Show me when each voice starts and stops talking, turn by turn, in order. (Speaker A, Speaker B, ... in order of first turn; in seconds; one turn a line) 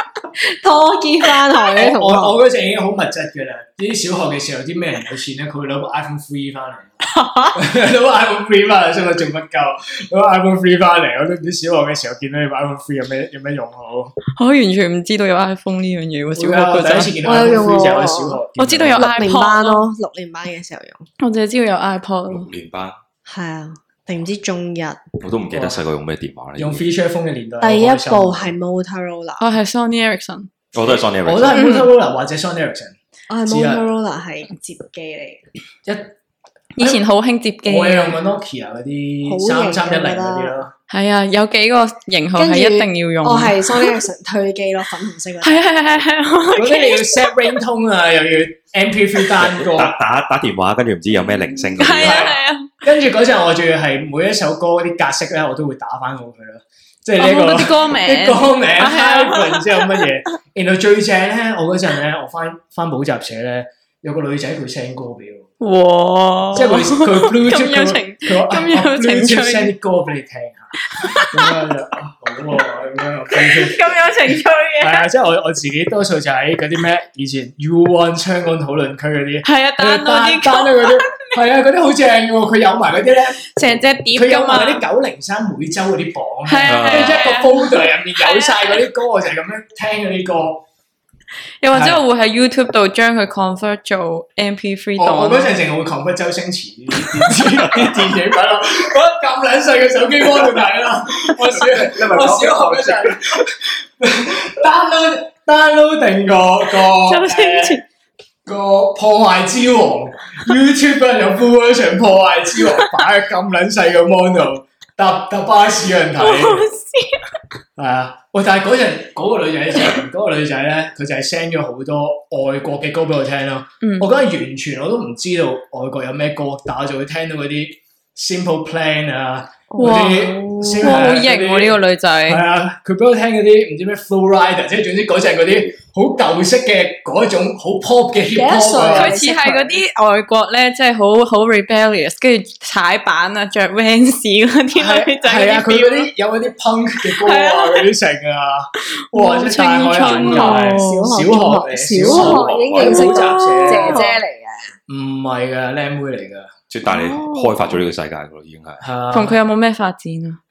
Speaker A: 0.4-2.4
Speaker B: 1.8-7.0
Speaker C: 7.1-7.6
Speaker B: 7.5-14.1
Speaker C: 14.3-17.2
Speaker B: 16.4-19.1
Speaker A: 17.2-18.4
Speaker C: 18.6-19.9
Speaker A: 18.9-21.1
Speaker C: 21.2-22.5
Speaker D: 22.3-23.0
Speaker A: 23.2-25.0
Speaker D: 25.2-26.9
Speaker B: 25.5-25.8
Speaker B: 26.6-28.5
Speaker A: 27.6-29.4
Speaker C: 29.4-30.5
Speaker D: 30.7-31.6
Speaker B: 31.2-33.8
Speaker C: 31.5-31.9
Speaker A: 33.3-35.4
Speaker B: 35.9-36.1
Speaker C: 36.8-38.2
Speaker B: 37.6-40.7
Speaker A: 39.2-40.6
Speaker C: 40.9-43.9
Speaker A: 42.4-45.6
Speaker C: 45.4-47.6
Speaker B: 46.5-49.9
Speaker D: 49.4-52.4
Speaker C: 51.2-52.7
Speaker B: 52.0-65.5
Speaker C: 57.2-59.9
Speaker C: 65.6-69.7
Speaker B: 66.5-74.0
Speaker C: 70.9-71.6
Speaker C: 73.3-75.1
Speaker B: 74.8-90.6
Speaker C: 79.4-81.3
Speaker C: 83.5-84.8
Speaker C: 86.5-88.8
Speaker D: 86.7-87.3
Speaker C: 91.6-95.6
Speaker B: 91.7-92.0
Speaker B: 95.0-107.8
Speaker D: 101.5-103.3
Speaker C: 107.0-107.8
Speaker B: 108.5-116.6
Speaker C: 116.2-117.2
Speaker B: 117.8-139.2
Speaker C: 123.8-124.1
Speaker A: 129.7-131.0
Speaker C: 129.8-132.4
Speaker A: 138.3-139.8
Speaker C: 138.9-146.1
Speaker B: 144.7-154.1
Speaker C: 147.0-147.9
Speaker C: 149.1-151.2
Speaker A: 150.0-154.7
Speaker D: 152.0-153.1
Speaker C: 152.8-154.2
Speaker B: 154.9-156.5
Speaker D: 156.7-158.8
Speaker A: 156.8-157.7
Speaker B: 158.8-159.4
Speaker C: 159.1-160.4